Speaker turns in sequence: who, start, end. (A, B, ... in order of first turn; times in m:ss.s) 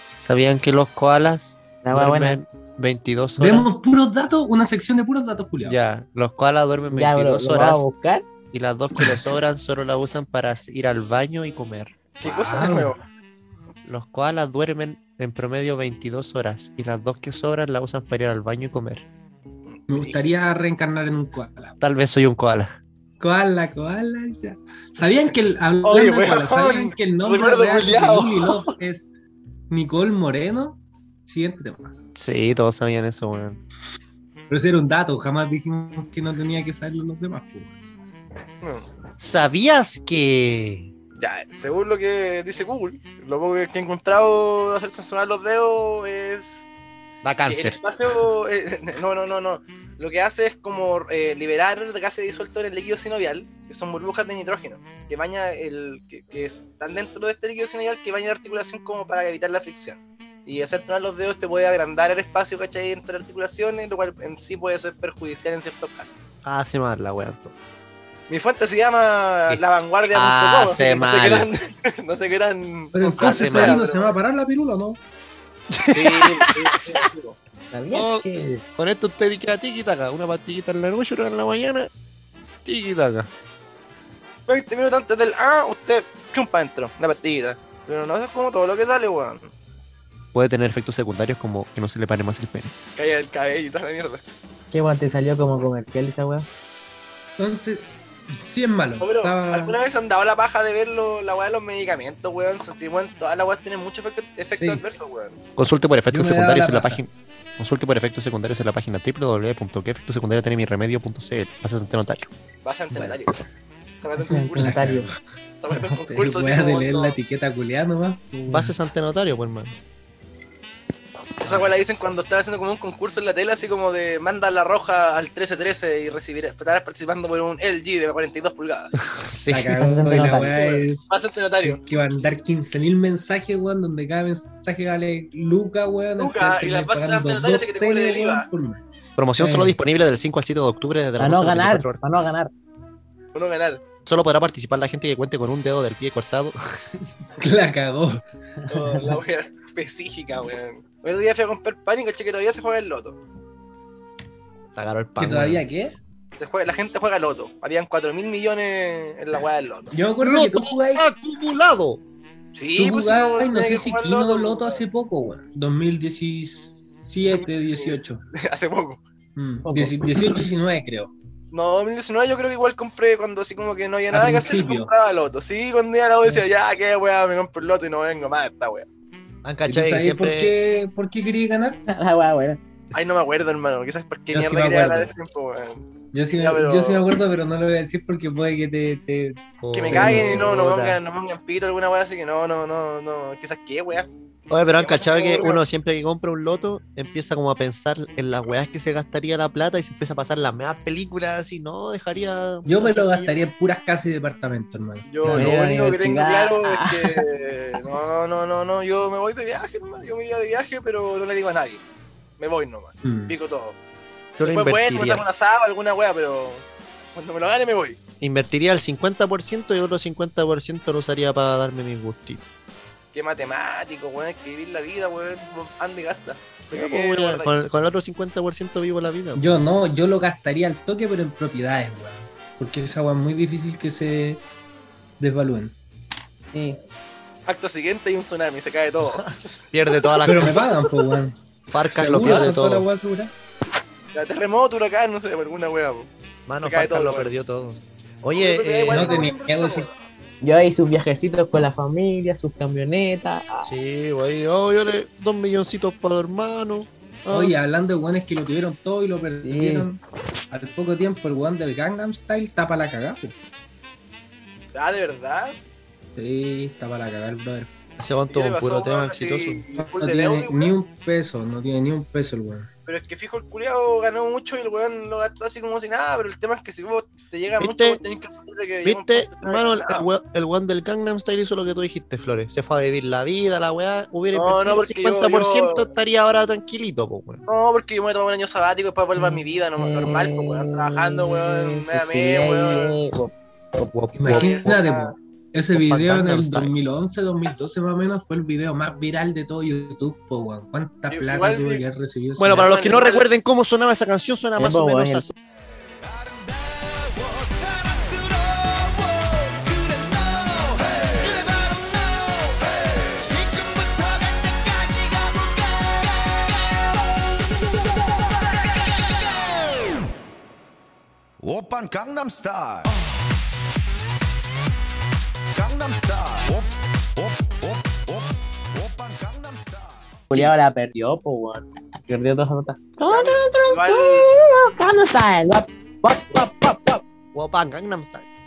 0:00.2-0:03.8 A
0:01.8-0:02.4 B
0:03.4-0:05.8 C
0:05.6-0:07.9 A
0:06.9-0:08.2 B
0:08.5-0:12.0 A
0:12.2-0:13.0 D
0:12.2-0:13.0 C
0:13.8-0:19.0 A
0:19.8-0:20.2 D
0:19.9-0:21.8 C
0:21.8-0:22.8 A
0:23.2-0:29.1 C
0:25.8-0:28.8 D
0:29.7-0:31.9 C
0:32.2-0:33.6 A
0:34.5-0:37.8 C
0:39.2-0:40.9 A
0:41.2-0:46.7 D
0:47.2-0:47.8 A
0:47.5-1:06.2 D
1:06.4-1:07.5 A
1:08.3-1:14.2 D
1:10.1-1:11.5 A
1:12.9-1:15.0 C
1:13.2-1:13.8 A
1:15.7-1:16.7 A
1:15.9-1:17.4 D
1:17.7-1:18.6 B
1:17.9-1:21.9 A
1:22.6-1:23.3 A
1:24.5-1:29.5 D
1:30.3-1:32.7 A
1:33.0-1:34.2 D
1:34.7-1:36.5 B
1:37.4-1:39.8 C
1:39.0-1:45.4 D
1:45.6-1:52.3 A
1:46.1-1:47.0 C
1:52.6-1:53.4 D
1:52.9-1:53.2 C
1:54.0-1:54.8 D
1:54.2-1:55.1 B
1:54.6-1:55.1 C
1:55.6-1:57.2 D
1:55.7-1:58.7 C
1:58.5-1:59.8 A
2:01.4-2:09.0 D
2:01.4-2:01.7 C
2:09.2-2:09.7 A
2:09.5-2:11.1 C
2:09.7-2:10.8 B
2:11.1-2:11.8 D
2:11.7-2:18.8 C
2:16.2-2:18.5 D
2:19.2-2:22.0 A
2:19.4-2:19.8 C
2:21.2-2:22.5 B
2:23.3-2:23.8 D
2:24.1-2:27.1 A
2:27.4-2:28.2 C
2:28.7-2:29.2 B
2:28.7-2:33.2 D
2:34.8-2:35.6 A
2:35.2-2:36.0 C
2:36.4-2:39.9 D
2:39.9-2:41.0 C
2:40.2-2:42.0 A
2:42.5-2:44.8 D
2:42.8-2:48.2 C
2:47.3-2:49.0 D
2:49.4-2:51.1 C
2:49.6-2:50.1 B
2:51.5-2:58.9 D
2:54.1-2:54.9 C
2:59.4-3:00.5 A
2:59.7-3:01.8 C
3:01.9-3:02.6 B
3:02.9-3:07.0 D
3:04.3-3:05.1 C
3:06.1-3:10.5 C
3:09.6-3:11.0 A
3:09.7-3:14.1 D
3:14.5-3:23.3 A
3:14.8-3:15.6 D
3:22.6-3:25.6 C
3:25.1-3:31.8 D
3:25.2-3:27.3 B
3:32.4-3:33.8 D
3:33.0-3:33.4 C
3:34.4-3:35.3 A
3:34.4-3:36.6 D
3:37.2-3:38.0 D
3:38.2-3:42.5 A
3:43.1-3:47.5 D
3:46.7-3:49.6 A
3:49.4-3:54.4 C
3:55.2-3:55.7 C
3:56.5-3:56.8 B
3:57.5-3:59.3 D
3:59.7-4:00.7 A
3:59.9-4:00.9 D
4:00.2-4:01.4 C
4:01.7-4:02.9 A
4:01.9-4:03.3 C
4:02.2-4:02.5 D
4:04.1-4:06.1 D
4:06.5-4:09.2 A
4:06.6-4:07.3 D
4:08.3-4:10.1 D
4:08.9-4:09.9 C
4:10.4-4:13.7 B
4:13.7-4:17.6 A
4:17.3-4:20.0 C
4:19.4-4:19.9 B
4:20.5-4:23.4 C
4:24.7-4:25.6 D
4:26.2-4:27.7 C
4:28.0-4:29.6 A
4:28.3-4:30.7 D
4:29.8-4:32.7 C
4:32.9-4:40.1 D
4:37.6-4:38.0 A
4:38.8-4:47.4 A
4:44.3-4:45.9 D
4:47.5-4:53.0 D
4:49.2-4:53.9 B
4:53.9-4:54.8 A
4:54.1-5:02.7 C
4:54.2-4:55.1 D
4:55.6-4:56.7 A
5:01.1-5:01.8 D
5:02.4-5:05.3 A
5:02.6-5:03.3 D
5:04.6-5:05.3 B
5:06.0-5:20.0 E
5:21.4-5:22.9 E
5:25.5-5:30.3 E
5:30.3-5:37.0 B
5:33.1-5:34.2 D
5:37.3-5:38.3 A